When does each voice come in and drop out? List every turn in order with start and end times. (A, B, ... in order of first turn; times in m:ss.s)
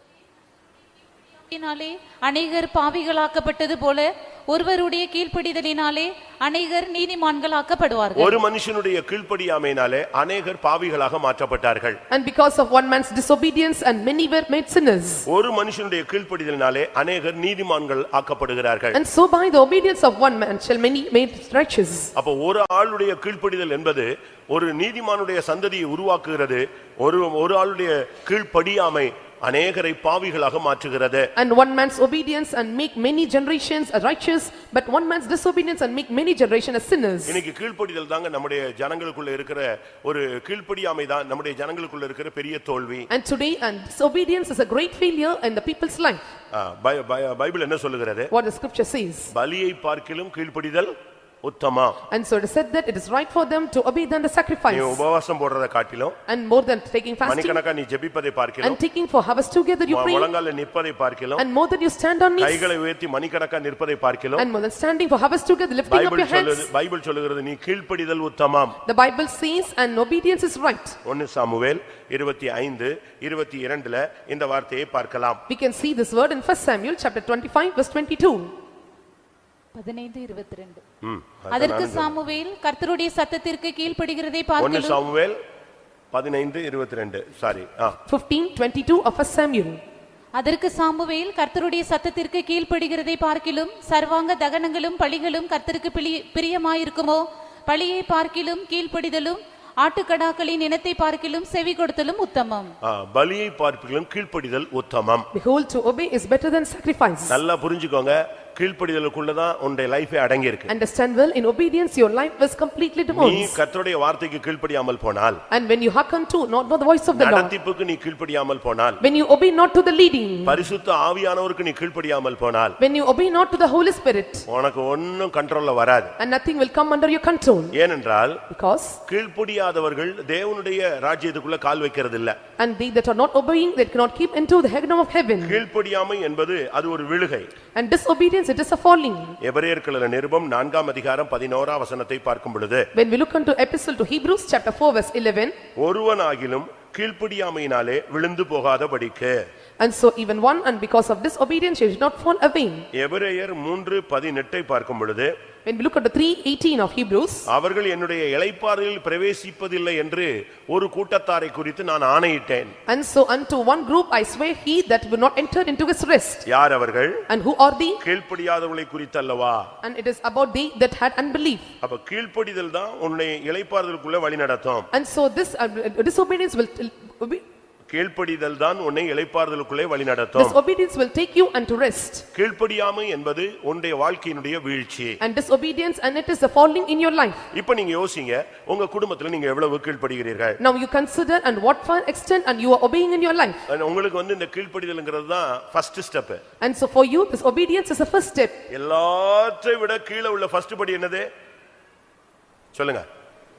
0:01.5-0:08.4 A
0:08.2-0:12.0 B
0:12.1-0:15.3 C
0:15.3-0:19.0 B
0:18.9-0:22.1 C
0:22.2-0:31.3 B
0:31.4-0:37.4 C
0:37.3-0:43.1 B
0:43.1-0:46.2 C
0:46.5-0:48.3 B
0:48.3-0:49.3 C
0:49.3-0:52.0 B
0:52.1-0:55.0 C
0:54.7-0:56.2 B
0:56.3-0:57.6 C
0:57.2-0:58.8 B
0:58.6-1:00.3 C
0:59.9-1:01.4 B
1:01.4-1:02.7 C
1:02.4-1:04.5 B
1:04.4-1:06.7 C
1:05.9-1:08.8 B
1:08.8-1:11.0 C
1:11.0-1:15.4 B
1:15.5-1:18.5 C
1:19.8-1:20.8 A
1:21.0-1:22.2 B
1:21.5-1:25.0 A
1:24.6-1:25.4 B
1:26.1-1:28.0 B
1:28.1-1:29.8 C
1:30.4-1:42.7 A
1:42.8-1:45.3 B
1:45.3-1:47.4 C
1:47.3-1:50.7 B
1:50.7-1:53.6 C
1:53.1-1:55.4 B
1:55.5-1:57.5 C
1:57.1-1:59.0 B
1:59.0-2:00.6 C
2:00.5-2:02.8 B
2:02.8-2:04.5 C
2:04.5-2:06.1 B
2:06.2-2:07.7 C
2:07.7-2:08.4 B
2:08.5-2:09.0 C
2:09.1-2:12.4 B
2:12.6-2:15.6 C
2:15.4-2:17.5 B
2:17.8-2:19.4 C
2:19.4-2:22.9 B
2:22.9-2:25.6 C
2:25.8-2:29.4 B
2:29.8-2:32.9 C
2:32.9-2:35.3 B
2:35.6-2:37.5 C
2:37.5-2:42.7 B
2:42.9-2:46.4 C
2:46.5-2:47.2 B
2:47.3-2:48.0 C
2:48.0-2:49.7 B
2:49.8-2:51.7 C
2:51.8-2:54.9 B
2:54.9-2:57.4 C
2:57.9-3:00.6 B
3:00.4-3:02.3 C
3:02.3-3:05.2 B
3:05.2-3:07.4 C
3:07.5-3:10.6 B
3:10.6-3:13.6 C
3:13.7-3:16.4 B
3:16.6-3:18.6 C
3:18.7-3:21.3 B
3:22.7-3:23.1 B